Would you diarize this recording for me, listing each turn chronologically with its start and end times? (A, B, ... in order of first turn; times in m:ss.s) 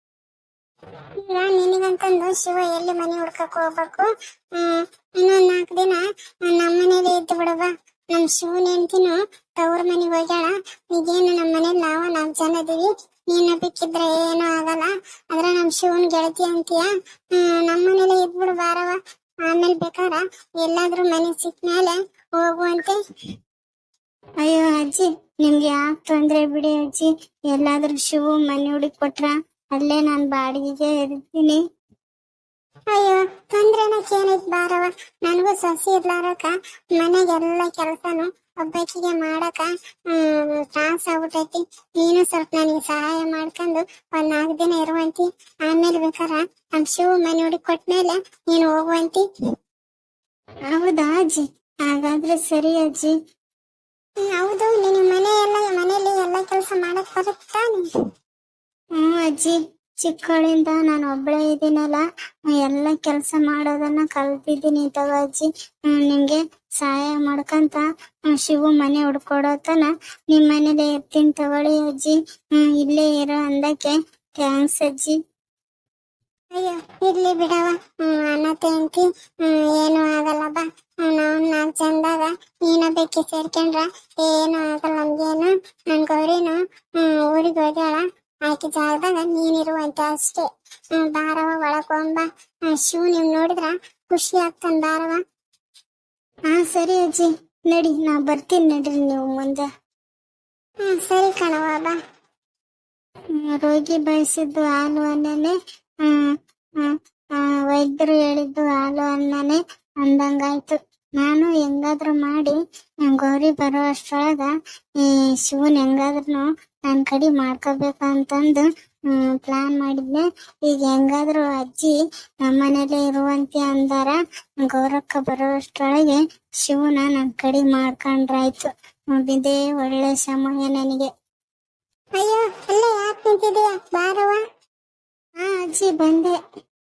0:01.2-0:23.0 A
0:24.4-0:31.6 B
0:32.9-0:49.3 A
0:50.7-0:53.1 B
0:54.3-0:57.9 A
0:59.0-1:02.0 B
1:02.5-1:15.2 B
1:16.5-1:35.2 A
1:36.5-1:39.6 B
1:40.8-1:42.0 A
1:43.4-1:45.5 B
1:46.8-1:50.8 B
1:48.5-1:48.9 A
1:51.2-1:52.5 A
1:51.3-1:52.4 B
1:53.1-1:54.1 A
1:53.1-1:54.5 B
1:55.5-1:58.6 B
1:55.5-1:56.3 A
1:56.9-1:58.3 A
1:59.4-2:00.1 A
1:59.5-2:00.2 B
2:00.8-2:01.8 A
2:01.1-2:01.9 B
2:02.5-2:04.2 B
2:04.7-2:11.1 B
2:12.2-2:14.4 A
2:15.4-2:16.3 B